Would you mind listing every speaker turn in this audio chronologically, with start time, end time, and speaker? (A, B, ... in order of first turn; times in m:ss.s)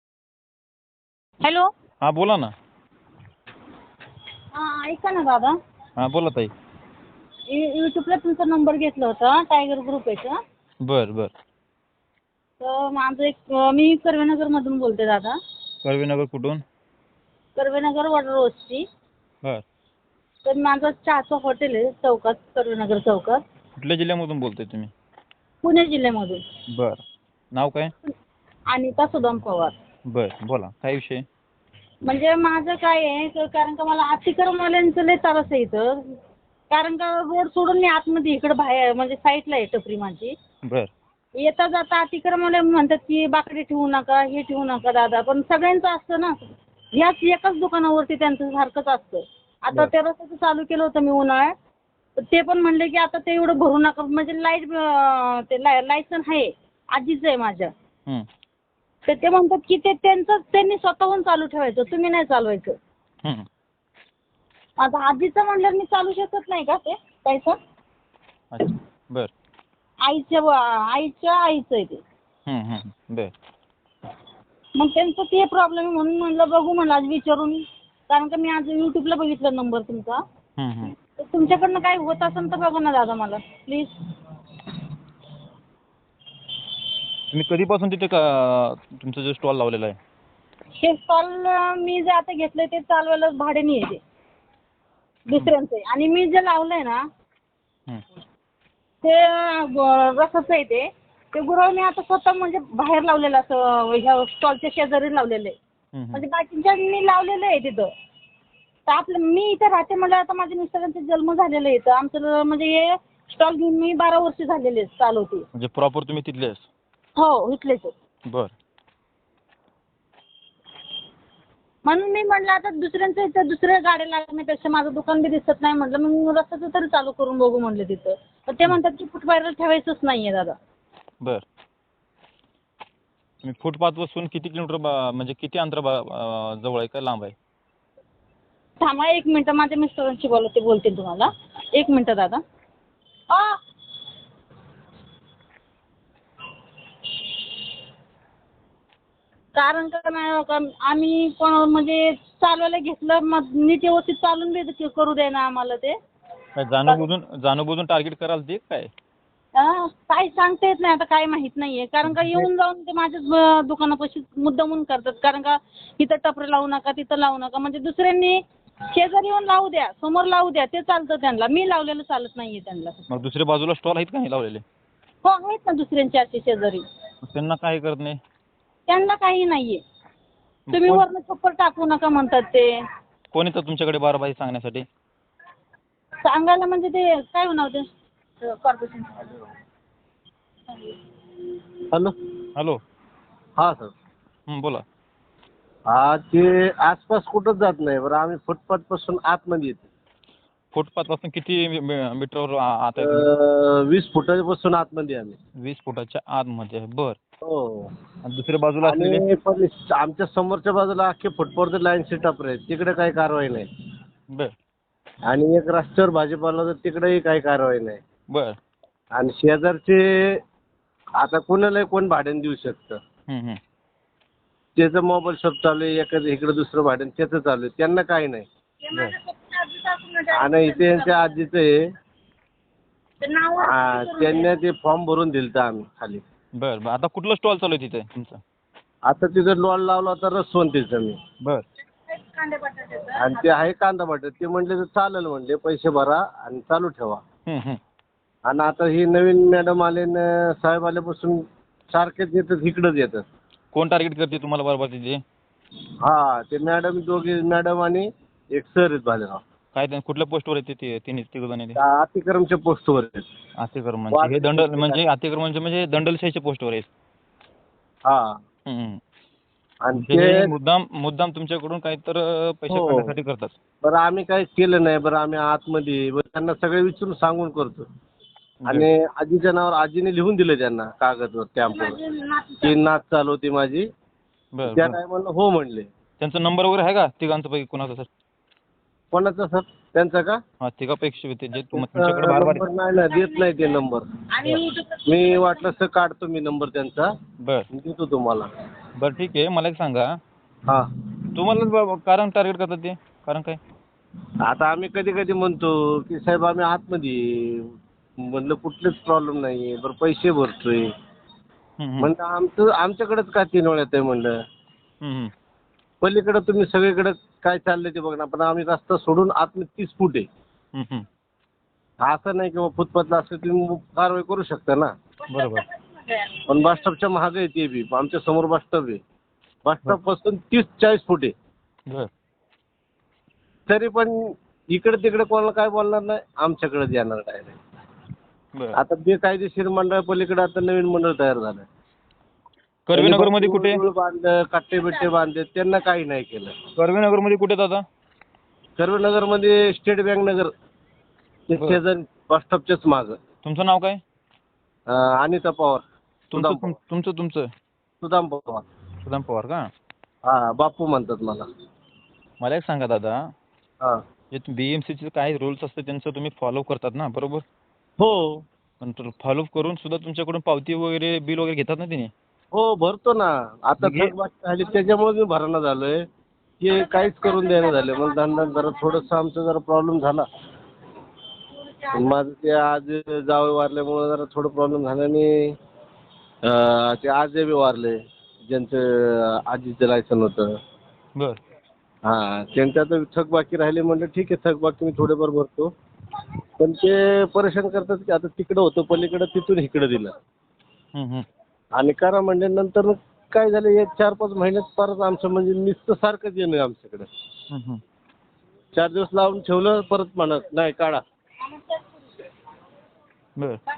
0:01.4-0:01.7 A
0:02.0-0:02.5 B
0:04.6-0:05.5 A
0:06.0-0:06.5 B
0:07.5-0:10.4 A
0:10.8-0:11.3 B
0:12.6-0:15.4 A
0:15.8-0:16.6 B
0:17.6-0:18.8 A
0:20.4-0:23.4 A
0:23.8-0:24.9 B
0:25.6-0:26.4 A
0:26.7-0:27.9 B
0:28.7-0:29.7 A
0:30.1-0:31.2 B
0:32.1-0:36.0 A
0:36.7-0:40.3 A
0:41.4-0:46.4 A
0:47.0-0:51.5 A
0:52.2-0:57.7 A
0:59.1-1:02.8 A
1:04.8-1:07.6 A
1:08.5-1:09.3 B
1:10.1-1:12.0 A
1:12.5-1:13.3 B
1:14.8-1:17.6 A
1:18.1-1:20.2 A
1:20.6-1:20.9 B
1:21.2-1:23.9 A
1:27.3-1:30.0 B
1:30.8-1:34.0 A
1:35.3-1:37.0 A
1:39.0-1:45.6 A
1:45.9-1:46.2 B
1:46.1-1:47.9 A
1:48.9-1:55.4 A
1:55.5-1:56.7 B
1:57.2-1:57.9 A
2:01.8-2:10.6 A
2:13.4-2:17.3 B
2:18.8-2:22.4 A
2:23.3-2:23.6 A
2:29.6-2:35.9 A
2:36.6-2:38.9 B
2:39.6-2:48.4 A
2:42.1-2:42.5 B
2:48.9-2:53.1 A
2:53.1-2:54.6 B
2:55.2-2:56.8 A
2:57.2-2:58.2 B
2:58.9-2:59.8 A
3:00.7-3:01.0 B
3:00.7-3:02.7 A
3:03.3-3:04.8 B
3:06.2-3:07.8 A
3:08.4-3:09.4 A
3:10.7-3:11.0 A
3:13.6-3:13.9 C
3:14.5-3:14.8 B
3:15.9-3:19.8 C
3:20.7-3:23.3 B
3:23.0-3:25.4 C
3:25.6-3:27.2 B
3:27.4-3:27.9 C
3:28.2-3:29.2 B
3:28.8-3:33.6 C
3:35.3-3:38.0 C
3:39.2-3:40.4 C
3:41.2-3:43.0 C
3:43.3-3:43.6 B
3:44.8-3:48.4 C
3:48.8-3:51.4 A
3:50.3-3:51.7 C
3:53.2-3:54.5 A
3:53.6-3:56.2 C
3:56.6-3:58.4 B
3:59.1-4:01.2 C
4:02.1-4:03.5 A
4:03.2-4:07.2 C
4:07.5-4:07.8 B
4:08.5-4:11.4 C
4:11.9-4:13.2 C
4:13.7-4:15.2 B
4:16.0-4:19.4 C
4:19.7-4:21.8 B
4:21.8-4:23.2 C
4:23.6-4:26.9 B
4:24.1-4:25.0 C
4:28.1-4:28.3 C
4:28.7-4:29.0 B
4:29.8-4:30.5 C
4:29.9-4:33.5 B
4:32.7-4:33.1 C
4:33.8-4:37.8 C
4:38.6-4:38.9 B
4:38.7-4:42.0 C
4:41.7-4:42.8 A
4:42.6-4:43.8 C
4:44.5-4:45.0 B
4:44.6-4:45.9 C
4:46.2-4:48.1 B
4:49.1-4:50.4 C
4:50.6-4:52.6 B
4:51.7-4:54.0 C
4:53.0-4:55.7 A
4:55.1-4:57.1 C
4:57.7-4:58.5 C
4:59.0-5:00.0 B
5:01.3-5:03.6 B
5:04.4-5:07.7 C
5:08.3-5:10.8 C
5:11.8-5:12.1 B
5:12.0-5:14.3 C
5:15.0-5:15.3 B
5:16.0-5:20.2 C
5:20.7-5:21.0 B
5:22.0-5:24.9 C
5:25.3-5:25.6 B
5:25.3-5:26.4 A
5:26.5-5:29.0 C
5:29.6-5:31.3 C
5:33.7-5:34.2 C
5:34.7-5:37.5 C
5:38.8-5:41.7 C
5:42.8-5:43.8 B
5:42.9-5:46.5 C
5:46.8-5:47.8 B
5:48.8-5:50.5 C
5:51.5-5:53.1 C
5:53.4-5:54.0 B
5:54.9-5:55.8 C
5:56.3-5:57.5 B
5:56.3-5:56.7 C
5:58.0-5:58.6 C
5:59.0-5:59.6 B
6:00.3-6:01.4 C
6:02.4-6:03.2 B
6:04.3-6:07.4 B
6:08.0-6:08.4 C
6:08.8-6:12.1 B
6:12.5-6:16.0 C
6:13.8-6:14.1 B
6:16.6-6:20.2 C
6:16.7-6:19.1 A
6:21.6-6:22.2 A
6:21.9-6:25.5 C
6:26.4-6:27.9 C
6:28.4-6:30.5 C
6:32.0-6:35.7 C
6:36.6-6:40.1 C
6:40.9-6:41.2 B
6:41.8-6:47.1 C
6:47.5-6:47.8 B
6:48.7-6:51.0 C
6:51.4-6:52.1 A